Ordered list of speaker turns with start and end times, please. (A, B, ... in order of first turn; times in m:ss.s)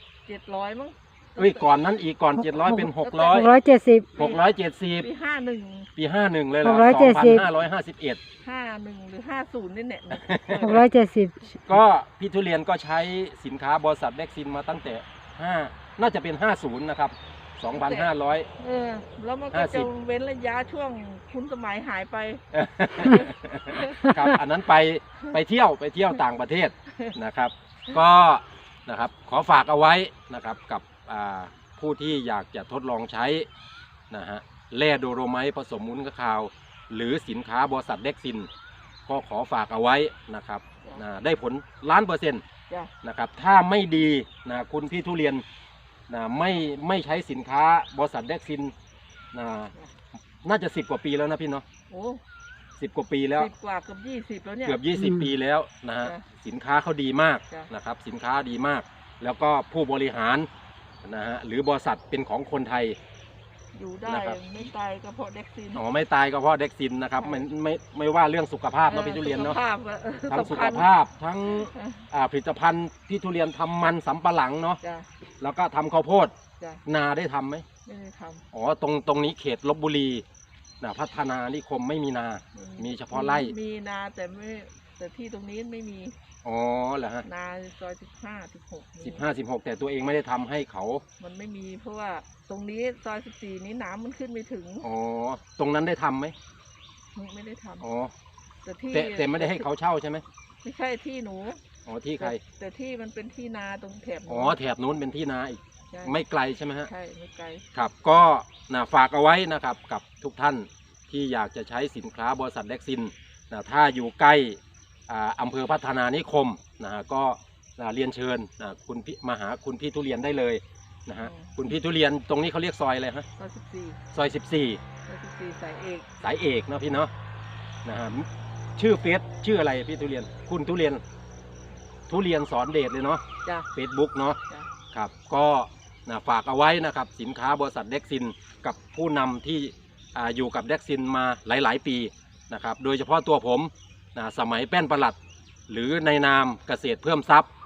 0:00.3-0:01.6 A
0:01.4-0:03.5 B
0:02.4-0:04.1 C
0:02.9-0:03.5 A
0:04.1-0:04.4 A
0:04.2-0:05.1 B
0:05.0-0:05.9 A
0:06.0-0:08.2 B
0:06.6-0:07.5 C
0:08.4-0:10.8 A
0:10.1-0:10.8 B
0:10.6-0:11.6 C
0:11.6-0:18.5 B
0:17.7-0:22.4 A
0:19.5-0:19.9 B
0:22.5-0:33.5 B
0:23.0-0:24.2 A
0:34.1-0:38.5 B
0:39.0-0:42.4 B
0:43.0-0:45.4 B
0:46.1-0:48.7 B
0:49.3-0:49.7 B
0:50.4-0:51.6 B
0:51.9-0:52.2 A
0:52.8-0:53.5 B
0:53.4-0:54.8 A
0:54.6-1:00.5 B
0:54.9-0:55.2 C
1:01.0-1:03.0 B
1:03.7-1:05.8 A
1:04.0-1:04.7 B
1:05.7-1:09.6 B
1:07.2-1:07.4 A
1:08.9-1:10.9 A
1:10.3-1:14.8 B
1:11.5-1:12.0 A
1:14.8-1:15.0 A
1:15.4-1:16.3 B
1:16.8-1:17.6 B
1:17.8-1:18.4 A
1:18.5-1:20.2 B
1:20.8-1:23.5 B
1:22.5-1:26.1 A
1:26.4-1:27.2 B
1:27.2-1:29.2 A
1:29.0-1:31.0 B
1:31.2-1:34.8 A
1:34.8-1:36.3 B
1:37.1-1:37.8 A
1:37.8-1:38.1 B
1:38.6-1:39.7 A
1:38.9-1:40.2 B
1:40.6-1:41.6 A
1:41.8-1:42.4 B
1:42.2-1:44.6 A
1:44.3-1:46.9 B
1:45.9-1:46.2 A
1:46.8-1:47.6 A
1:47.7-2:03.2 B
2:01.2-2:01.6 A
2:03.4-2:04.0 A
2:04.1-2:04.8 B
2:05.0-2:06.2 A
2:06.2-2:07.1 B
2:07.8-2:11.0 B
2:12.1-2:13.2 B
2:13.7-2:14.4 B
2:14.9-2:25.2 B
2:25.7-2:27.5 B